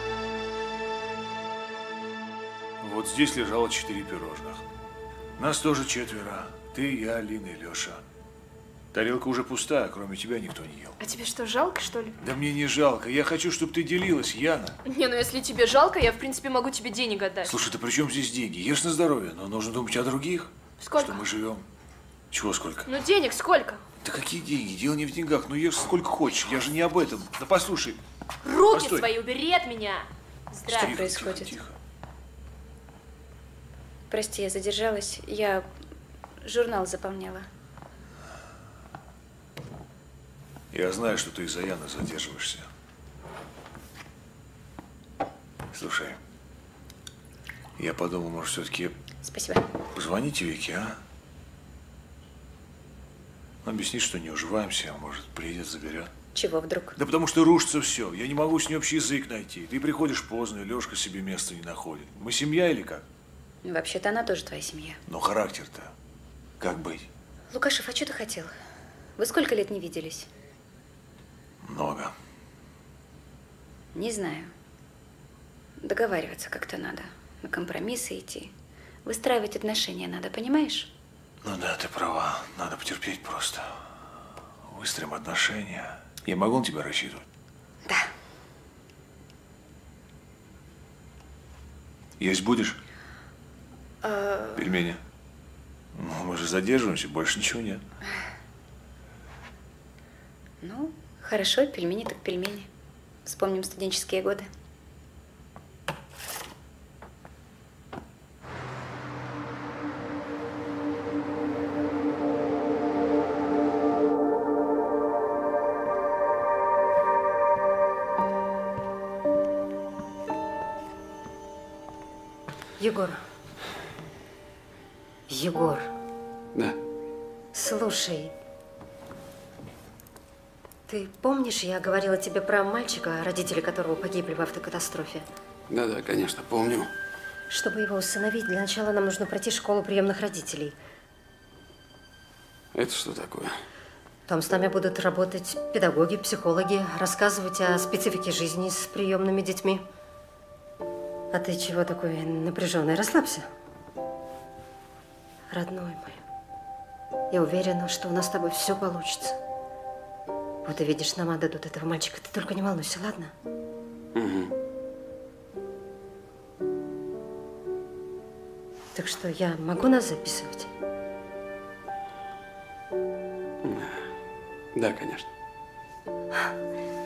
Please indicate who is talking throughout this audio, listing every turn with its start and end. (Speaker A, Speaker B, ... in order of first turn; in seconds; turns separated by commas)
Speaker A: 2.8-4.6, Speaker A: 5.4-8.0, Speaker A: 8.9-11.0, Speaker B: 11.0-12.2, Speaker A: 12.2-14.8, Speaker B: 14.9-17.6, Speaker A: 17.4-21.7, Speaker B: 20.8-21.2, Speaker A: 22.3-22.9, Speaker B: 22.9-23.8, Speaker A: 24.0-28.0, Speaker B: 28.4-31.0, Speaker A: 28.7-29.1, Speaker A: 30.7-31.8, Speaker C: 30.7-31.5, Speaker C: 34.1-35.7, Speaker C: 36.4-37.5, Speaker A: 40.7-42.7, Speaker A: 45.7-46.2, Speaker A: 47.8-49.0, Speaker C: 49.2-49.6, Speaker A: 50.0-51.0, Speaker A: 53.6-56.1, Speaker C: 56.4-57.0, Speaker A: 57.0-63.0, Speaker C: 63.6-65.0, Speaker A: 65.1-65.9, Speaker A: 66.6-67.1, Speaker C: 67.5-68.5, Speaker C: 69.2-70.3, Speaker A: 71.6-72.1, Speaker C: 73.9-74.5, Speaker C: 75.8-78.5, Speaker C: 79.0-80.9, Speaker A: 81.4-83.8, Speaker A: 84.7-87.2, Speaker A: 92.2-92.8, Speaker C: 94.0-94.7, Speaker A: 94.6-95.0, Speaker A: 96.0-97.8, Speaker C: 100.6-102.7, Speaker C: 103.3-104.5, Speaker D: 122.8-123.2, Speaker D: 125.3-125.9, Speaker D: 127.5-128.3, Speaker D: 130.9-135.2, Speaker E: 135.7-136.9, Speaker D: 137.5-140.8, Speaker E: 142.7-143.5, Speaker D: 144.3-149.8, Speaker D: 151.3-153.5, Speaker D: 155.5-156.2, Speaker D: 157.3-159.4, Speaker D: 160.6-163.3, Speaker E: 164.2-164.5, Speaker D: 168.9-170.7, Speaker E: 173.6-174.0, Speaker E: 174.8-175.3